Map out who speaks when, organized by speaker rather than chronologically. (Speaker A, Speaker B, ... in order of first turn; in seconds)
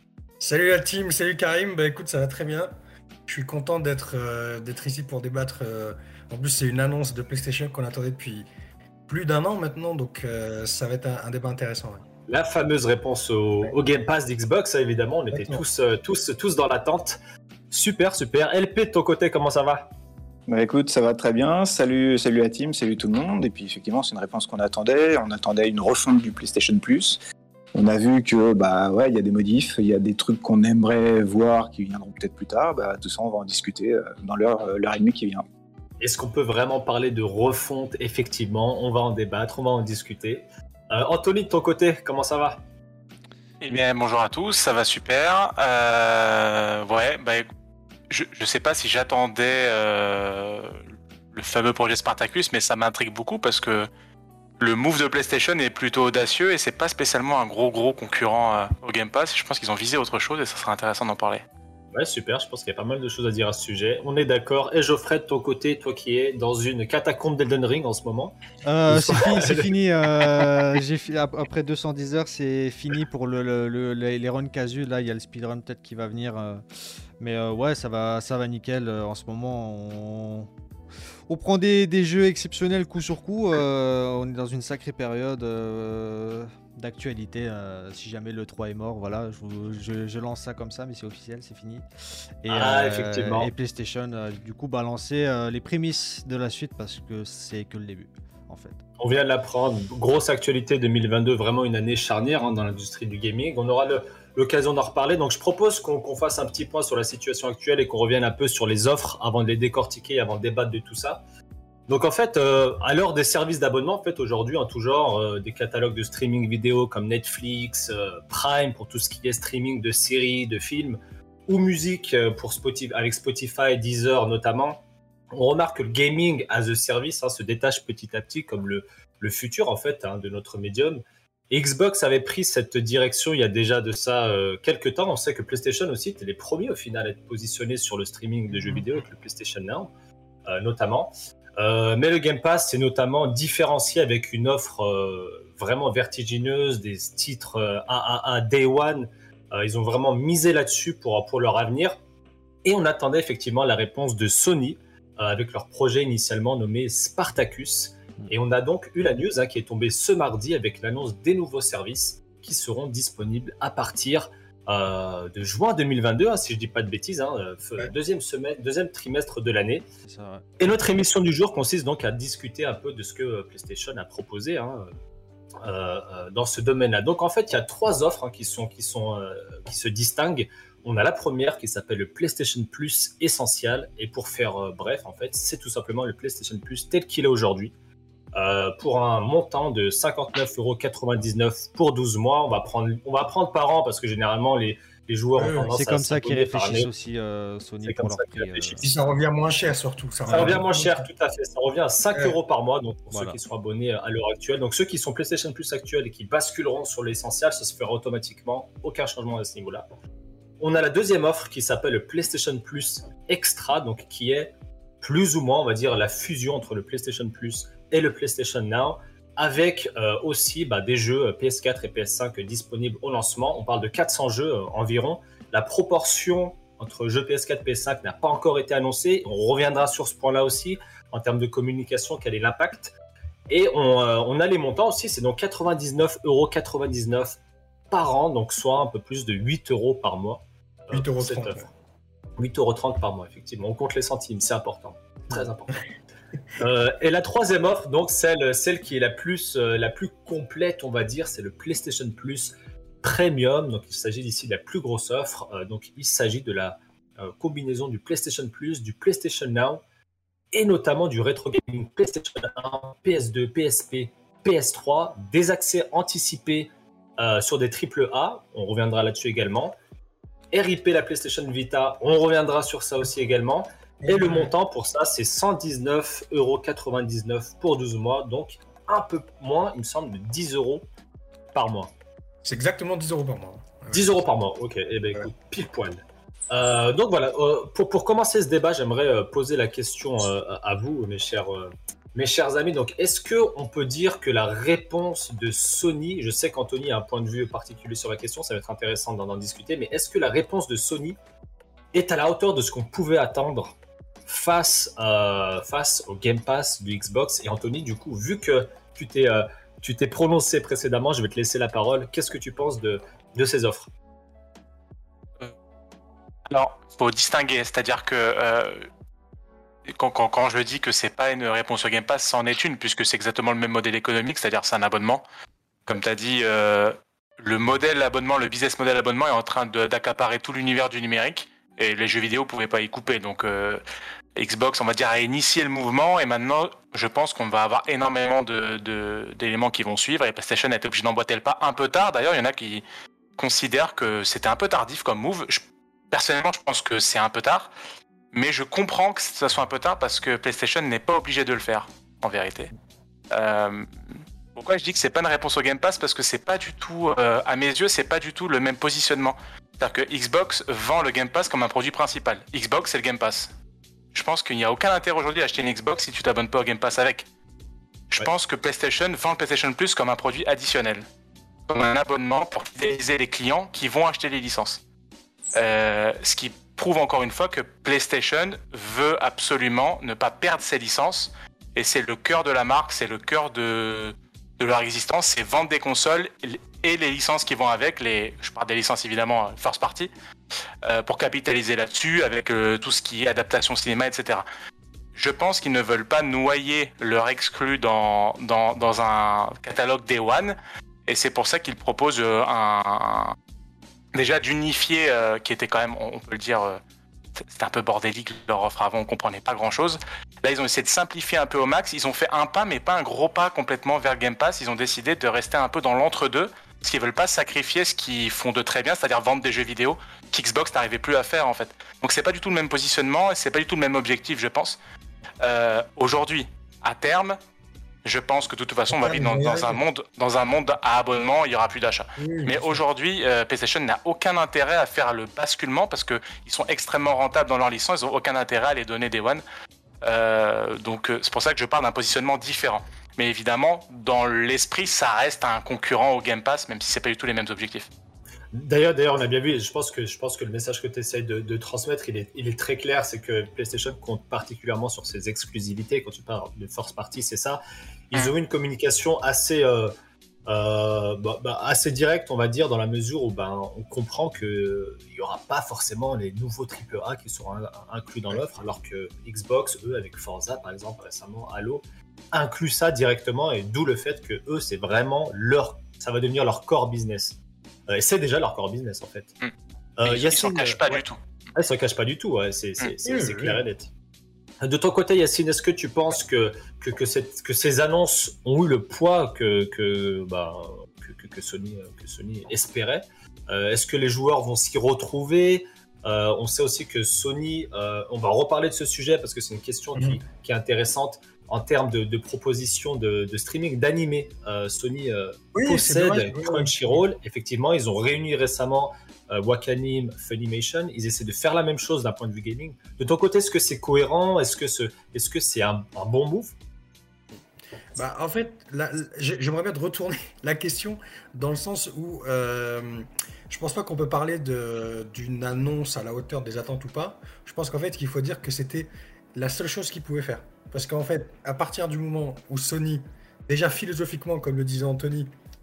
Speaker A: 0.4-2.7, 3.3-8.5, 9.1-12.0, 15.3-15.6, 195.3-195.7, 198.8-201.1, 240.9-241.7, 274.0-274.5, 282.4-284.2, 428.9-429.8, 432.2-432.8, 483.0-483.6, 505.5-507.0, 517.9-535.3
Speaker B: 12.3-17.2, 17.7-19.9, 36.0-42.6, 61.9-68.4, 68.9-69.7, 92.5-93.5, 99.0-111.2, 111.9-124.8, 125.3-139.9, 140.5-152.0, 152.6-169.8, 170.6-174.9, 175.6-187.7, 188.3-196.9, 197.9-198.9, 200.3-209.9, 210.6-232.9, 233.5-237.3, 237.9-241.7, 242.4-245.8, 246.6-252.5, 253.0-259.8, 260.5-269.8, 270.5-280.8, 281.5-281.9, 283.9-301.2, 301.9-313.9, 448.5-457.6, 458.1-459.9, 460.5-479.3, 480.0-481.0, 481.5-483.9, 484.6-516.5
Speaker C: 20.5-27.2, 27.7-35.4
Speaker D: 43.6-47.5, 48.1-53.9, 54.6-61.4, 316.5-318.9, 319.9-325.2, 325.9-333.8, 334.4-342.8, 343.4-347.7, 348.3-352.7, 353.3-353.9, 354.5-363.5, 364.1-367.3, 368.1-371.0, 371.7-374.8, 375.5-390.1, 390.8-394.4, 395.1-403.4, 404.1-406.8, 407.4-424.8, 425.4-427.4, 428.0-439.4, 440.0-447.9, 480.0-481.2
Speaker E: 68.6-76.6, 77.2-80.5, 81.3-91.8, 92.4-98.8, 170.0-170.4, 195.7-198.8, 203.1-203.4